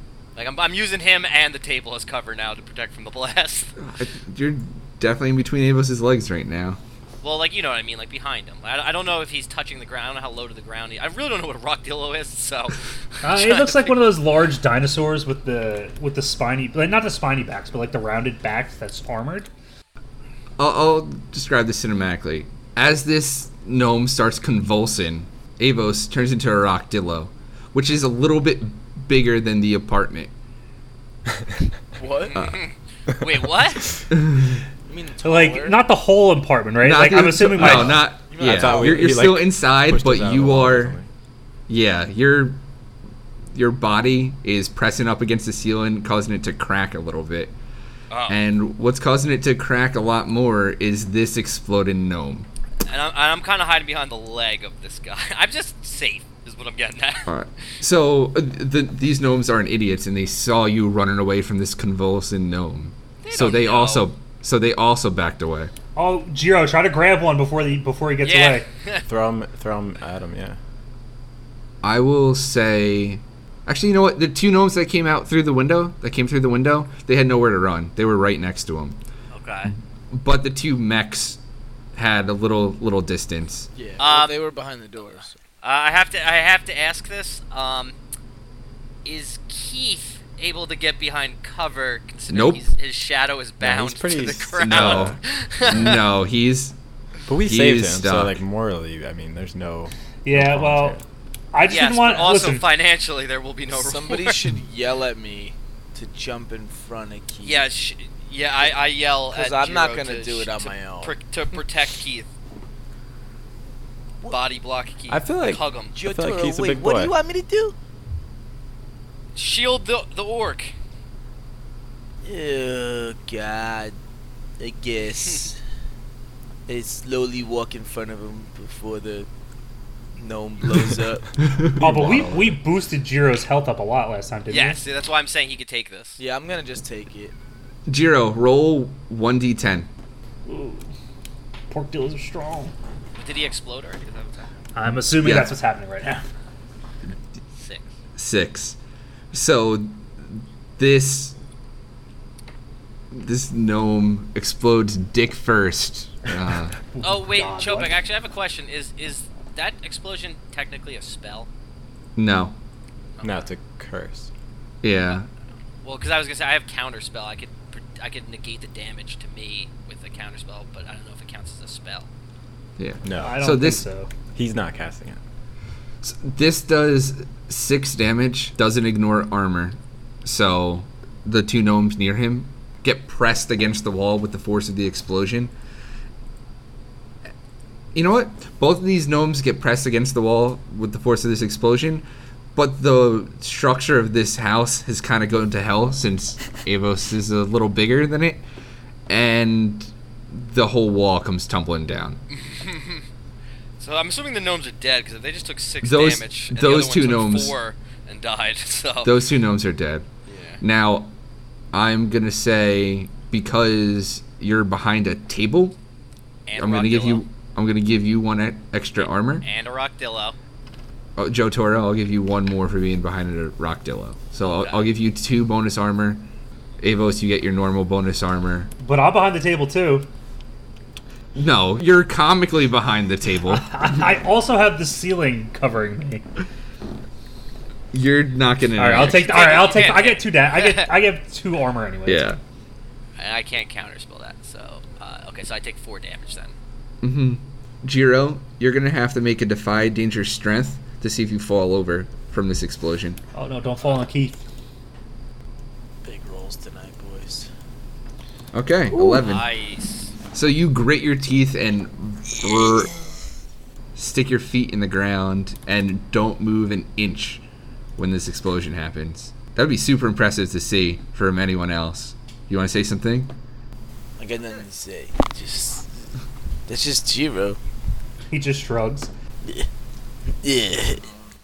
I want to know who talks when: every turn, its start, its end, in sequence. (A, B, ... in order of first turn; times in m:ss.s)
0:00.4-0:03.8 A
0:03.8-0:06.8 B
0:07.2-0:14.0 A
0:13.2-0:19.5 C
0:20.6-0:30.3 B
0:32.0-0:32.4 D
0:32.3-0:34.0 A
0:32.3-0:32.6 B
0:34.1-0:34.6 B
0:34.9-0:35.8 D
0:35.2-0:38.1 C
0:36.8-0:41.0 B
0:37.6-0:41.1 E
0:38.3-0:39.2 D
0:41.7-0:42.6 B
0:43.5-0:47.5 B
0:48.1-0:48.4 A
0:48.3-0:52.5 B
0:52.9-0:57.3 A
0:57.3-1:05.7 B
1:03.2-1:04.1 A
1:06.0-1:08.7 C
1:08.2-1:09.1 A
1:09.1-1:10.6 E
1:11.8-1:19.0 B
1:19.3-1:19.7 A
1:20.1-1:21.4 B
1:22.0-1:23.7 B
1:23.8-1:25.4 D
1:24.0-1:24.4 A
1:25.6-1:28.0 A
1:29.0-1:36.0 A
1:32.3-1:32.6 B
1:33.6-1:35.2 E
1:34.6-1:36.8 B
1:37.3-1:41.0 E
1:37.5-1:38.4 B
1:40.2-1:41.0 C
1:41.5-1:42.7 C
1:41.7-1:44.4 A
1:43.7-1:47.6 D
1:47.4-1:52.3 A
1:49.3-1:51.2 D
1:54.3-1:56.0 A
1:55.1-1:57.1 E
1:56.0-1:57.8 D
1:59.4-2:00.7 A
2:02.2-2:04.0 D
2:04.6-2:05.6 D
2:06.7-2:09.3 D
2:10.2-2:11.5 D
2:11.8-2:12.6 E
2:11.8-2:14.8 C
2:14.5-2:16.2 A
2:16.2-2:17.3 D
2:17.9-2:19.9 B
2:20.5-2:20.9 C
2:21.7-2:22.7 C
2:23.2-2:24.5 A
2:24.8-2:26.3 C
2:25.2-2:25.5 B
2:27.6-2:27.9 A
2:28.2-2:28.8 B
2:29.3-2:31.4 B
2:33.1-2:36.8 B
2:37.0-2:38.0 C
2:37.0-2:41.5 A
2:42.2-2:42.6 B
2:43.2-2:43.5 A
2:43.2-2:44.3 E
2:44.8-2:45.3 B
2:45.8-2:52.1 A
2:52.8-2:53.8 B
2:53.0-2:53.4 E
2:53.2-2:54.1 C
2:54.4-2:55.2 E
2:56.0-3:05.5 B
3:08.0-3:18.4 B
3:19.1-3:22.2 B
3:22.3-3:23.0 A
3:23.8-3:29.1 A
3:25.8-3:27.6 B
3:29.0-3:30.1 B
3:30.3-3:30.6 A
3:30.6-3:31.1 B
3:31.7-3:35.8 B
3:36.5-3:37.2 A
3:36.6-3:39.4 B
3:39.0-3:40.4 A
3:41.2-3:46.3 B
3:44.5-3:44.9 A
3:46.8-3:48.7 B
3:48.8-3:50.1 C
3:51.4-3:54.0 B
3:53.5-3:56.3 C
3:57.9-3:59.7 B
3:58.8-4:02.3 C
3:59.1-4:00.9 A
4:02.1-4:02.4 B
4:03.2-4:06.6 A
4:07.0-4:13.2 B
4:13.3-4:14.4 C
4:16.0-4:17.5 D
4:18.5-4:19.5 B
4:19.0-4:20.1 A
4:20.3-4:22.9 B
4:24.0-4:27.4 B
4:28.0-4:33.3 B
4:34.2-4:35.9 D
4:36.7-4:37.6 D
4:38.3-4:39.1 C
4:40.4-4:41.1 D